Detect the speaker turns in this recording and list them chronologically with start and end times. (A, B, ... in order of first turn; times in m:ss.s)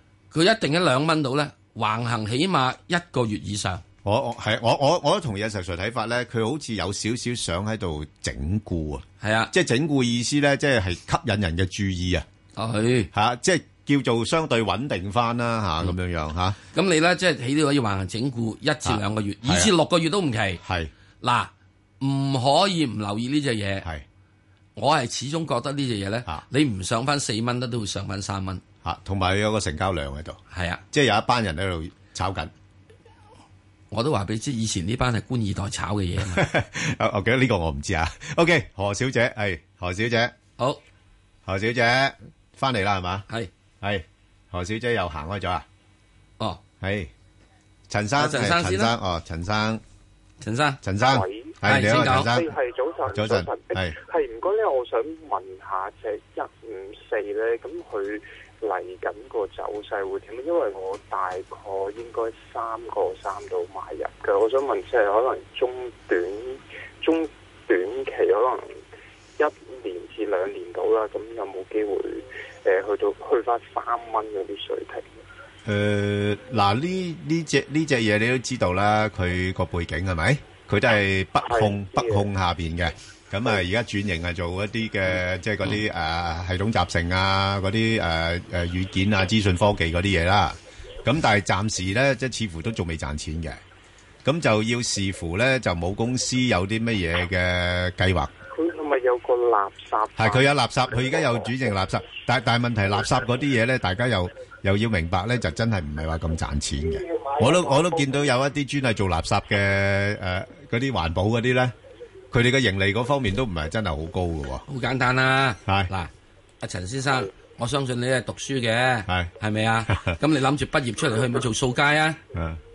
0:00.3-0:03.8 A
0:04.0-0:12.2 B
0:09.2-0:09.5 A
0:12.6-0:13.1 A
0:13.1-0:16.6 B
0:16.7-0:20.6 A
0:18.8-0:19.7 B
0:20.6-0:20.9 B
0:21.2-0:23.8 A
0:24.8-0:28.6 A
0:28.8-0:30.4 B
0:30.5-0:30.8 A
0:30.9-0:32.5 B
0:33.9-0:36.4 A
0:36.2-0:40.3 B
0:41.4-0:43.2 B
0:43.8-0:45.6 B
0:46.8-0:47.1 B
0:47.9-0:49.8 B
0:48.2-0:48.9 A
0:50.4-0:50.8 A
0:50.8-0:52.5 B
0:51.0-1:08.8 C
0:51.6-0:52.3 A
0:53.1-0:53.9 B
1:09.4-1:15.1 C
1:15.6-1:33.6 B
1:21.4-1:22.3 C
1:34.2-1:38.3 B
1:38.5-1:40.5 C
1:40.2-1:51.7 B
1:52.3-1:54.6 B
1:54.7-2:02.2 A
1:59.9-2:00.1 B
2:02.3-2:02.6 B